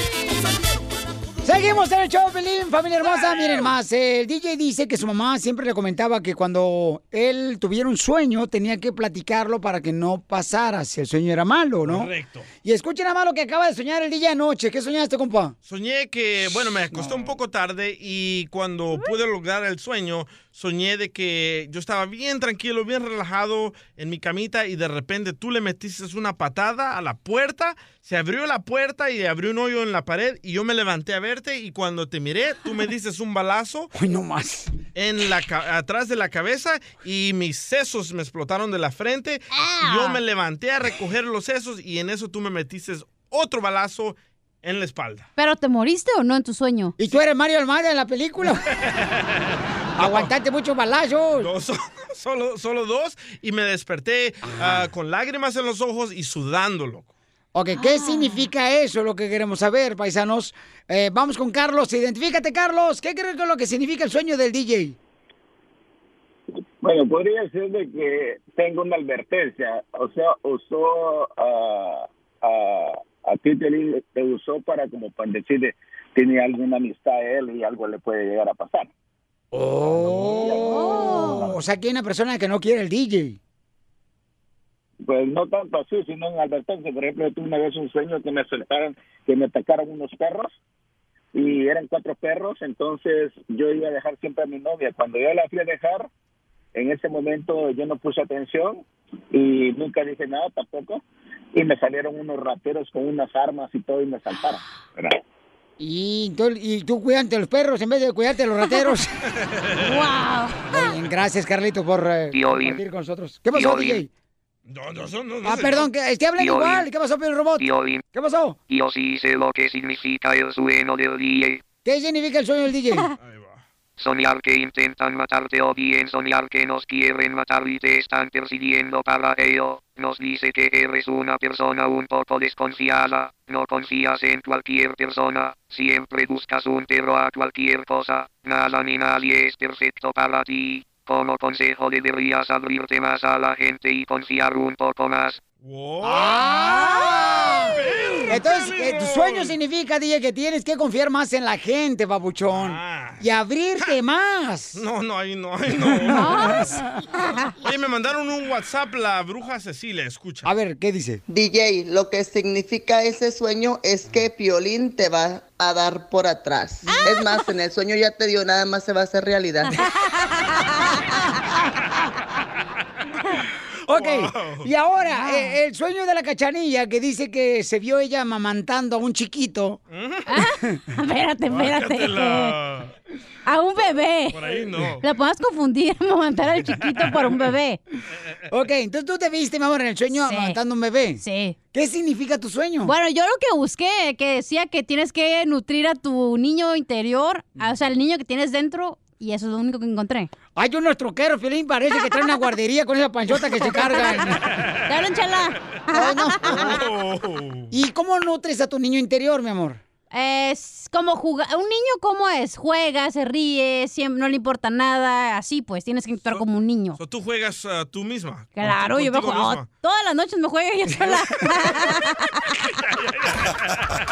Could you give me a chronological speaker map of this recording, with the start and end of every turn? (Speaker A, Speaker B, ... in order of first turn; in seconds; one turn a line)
Speaker A: 1.4-12.1
Speaker B: 3.3-3.6
Speaker B: 11.8-12.5
Speaker A: 12.6-15.5
Speaker B: 15.7-33.9
Speaker A: 16.9-17.3
Speaker A: 33.9-34.7
Speaker B: 35.0-45.3
Speaker C: 39.8-40.2
Speaker C: 45.4-46.9
Speaker A: 47.0-48.5
Speaker B: 48.8-50.3
Speaker A: 50.0-51.5
Speaker B: 51.4-57.1
Speaker A: 57.5-65.0
Speaker C: 57.7-58.5
Speaker D: 66.8-78.9
Speaker A: 79.5-83.4
Speaker D: 79.9-81.5
Speaker C: 80.5-81.5
Speaker D: 85.0-90.5
Speaker D: 91.3-96.1
Speaker D: 96.7-101.0
Speaker D: 101.5-105.2
Speaker A: 105.8-109.0
Speaker B: 109.6-109.9
Speaker C: 109.8-111.0
Speaker A: 110.7-114.1
Speaker E: 112.3-112.8
Speaker E: 113.5-114.0
Speaker B: 114.7-115.9
Speaker A: 115.4-117.6
Speaker E: 116.4-116.9
Speaker E: 117.6-118.0
Speaker A: 118.1-118.5
Speaker E: 118.7-121.6
Speaker A: 121.8-123.0
Speaker B: 123.2-123.6
Speaker E: 124.0-145.4
Speaker B: 145.6-146.4
Speaker A: 146.0-147.7
Speaker C: 146.6-147.4
Speaker B: 147.6-149.6
Speaker A: 148.3-154.8
Speaker B: 152.4-153.2
Speaker B: 154.7-156.8
Speaker C: 156.1-157.5
Speaker B: 157.6-160.5
Speaker A: 160.4-161.2
Speaker F: 161.3-169.8
Speaker C: 166.9-167.2
Speaker C: 169.8-171.0
Speaker A: 173.9-179.8
Speaker B: 173.9-174.7
Speaker C: 175.1-175.5
Speaker B: 179.9-180.4
Speaker C: 180.3-182.6
Speaker B: 181.5-182.9
Speaker C: 183.4-187.8
Speaker B: 184.3-185.0
Speaker B: 186.6-187.3
Speaker A: 188.5-191.2
Speaker C: 190.1-190.6
Speaker C: 191.2-191.6
Speaker A: 191.7-192.9
Speaker C: 192.8-200.3
Speaker A: 200.6-204.4
Speaker C: 203.6-204.3
Speaker C: 204.9-206.8
Speaker A: 205.9-206.6
Speaker B: 206.4-207.7
Speaker A: 207.7-209.8
Speaker C: 210.1-217.0
Speaker B: 217.0-219.6
Speaker C: 218.6-222.5
Speaker B: 223.0-223.8